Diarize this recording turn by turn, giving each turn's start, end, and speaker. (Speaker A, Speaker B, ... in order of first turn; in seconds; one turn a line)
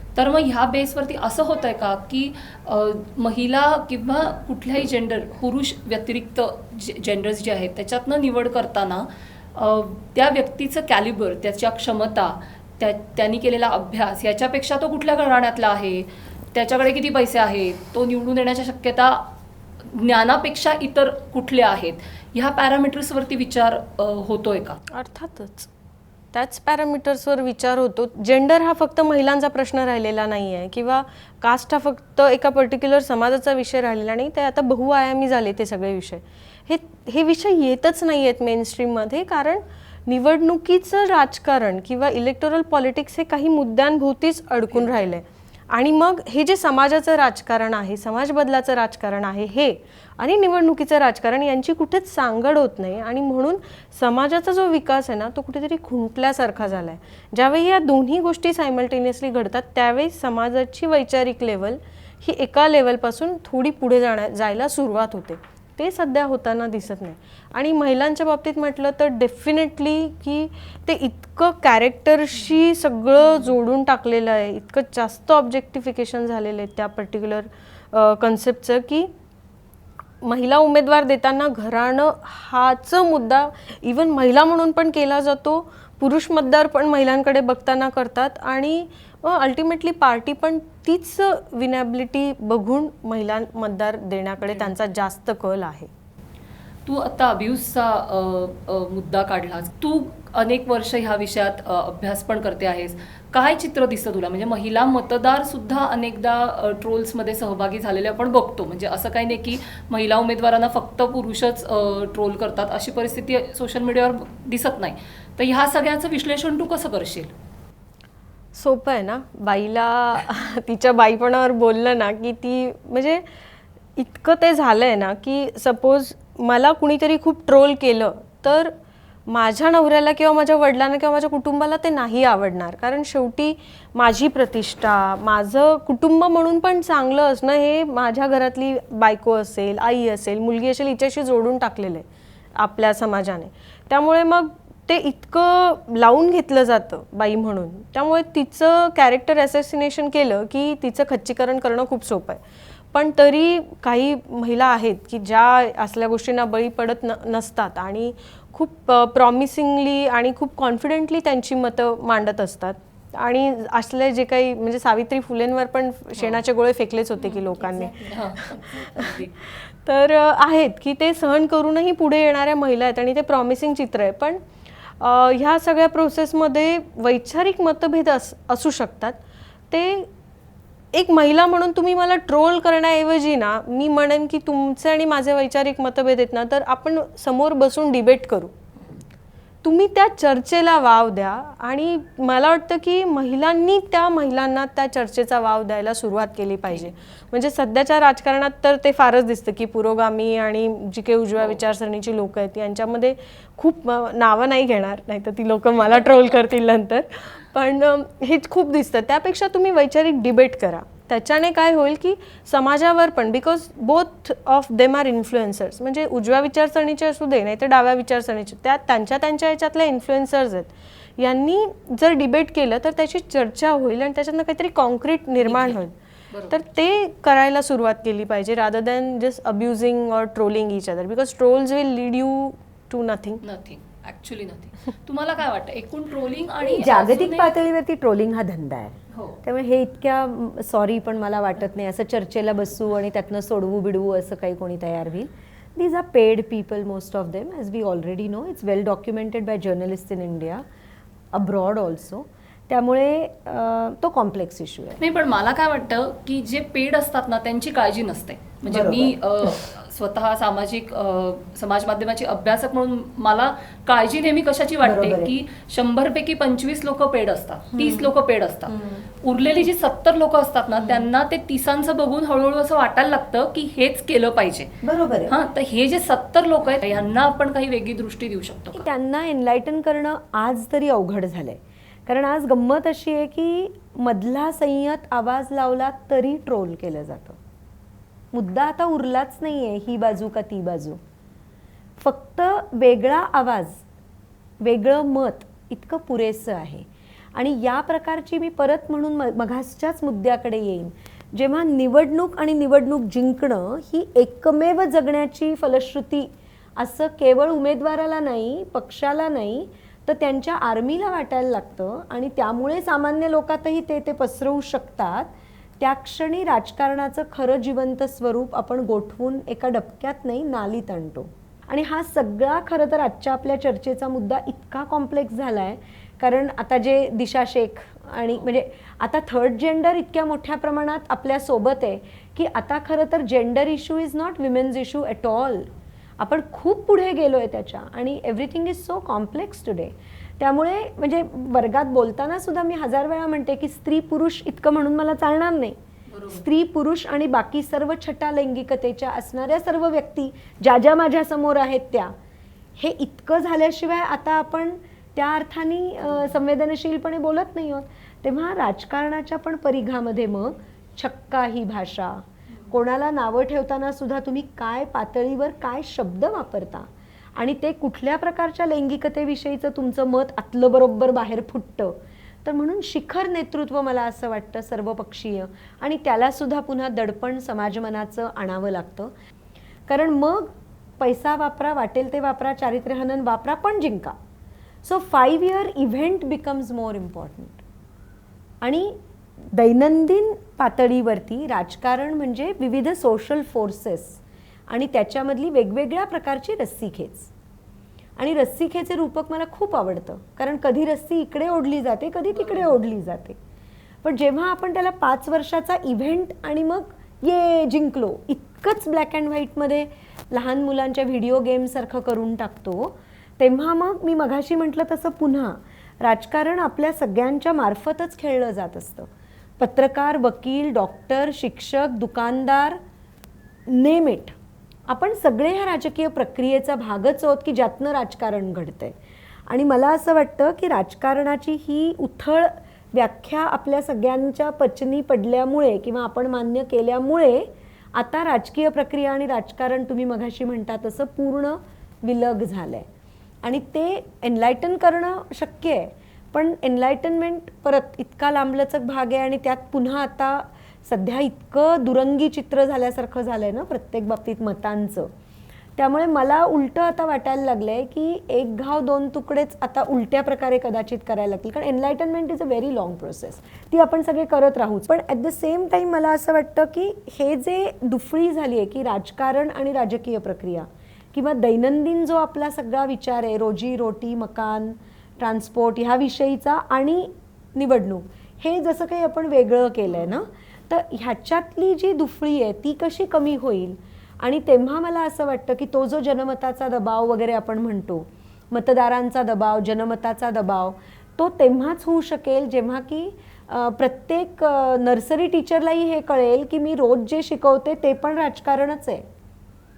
Speaker A: 0.2-19.2
Speaker A: 19.9-24.8
Speaker B: 24.9-25.7
Speaker B: 26.3-79.1
Speaker B: 80.2-95.9
Speaker A: 96.9-117.3
Speaker B: 118.5-123.2
Speaker B: 124.0-128.7
Speaker B: 129.3-142.1
Speaker B: 142.6-152.4
Speaker B: 152.9-179.2
Speaker A: 167.2-169.3
Speaker B: 179.7-180.1
Speaker B: 180.9-188.5
Speaker B: 189.6-225.9
Speaker A: 205.8-206.1
Speaker A: 225.4-225.8
Speaker A: 226.3-226.6
Speaker B: 226.5-233.4
Speaker A: 233.4-237.6
Speaker C: 236.6-250.6
Speaker A: 239.1-239.4
Speaker C: 251.3-255.0
Speaker A: 255.0-274.7
Speaker C: 258.7-259.5
Speaker C: 264.8-265.3
Speaker C: 267.8-268.1
Speaker C: 268.7-269.0
Speaker C: 274.8-275.4
Speaker A: 275.3-278.9
Speaker C: 278.7-287.4
Speaker C: 288.3-291.0
Speaker C: 292.0-293.8
Speaker C: 294.6-335.7
Speaker C: 336.2-345.8
Speaker A: 346.1-346.4
Speaker C: 346.3-352.1
Speaker C: 352.8-379.1
Speaker C: 379.9-384.1
Speaker C: 384.8-387.6
Speaker C: 388.6-389.0
Speaker C: 389.5-397.3
Speaker C: 398.2-403.4
Speaker A: 402.4-402.8
Speaker C: 404.0-422.8
Speaker C: 423.7-424.3
Speaker C: 424.9-429.0
Speaker C: 429.5-442.9
Speaker C: 443.4-455.1
Speaker C: 455.8-499.1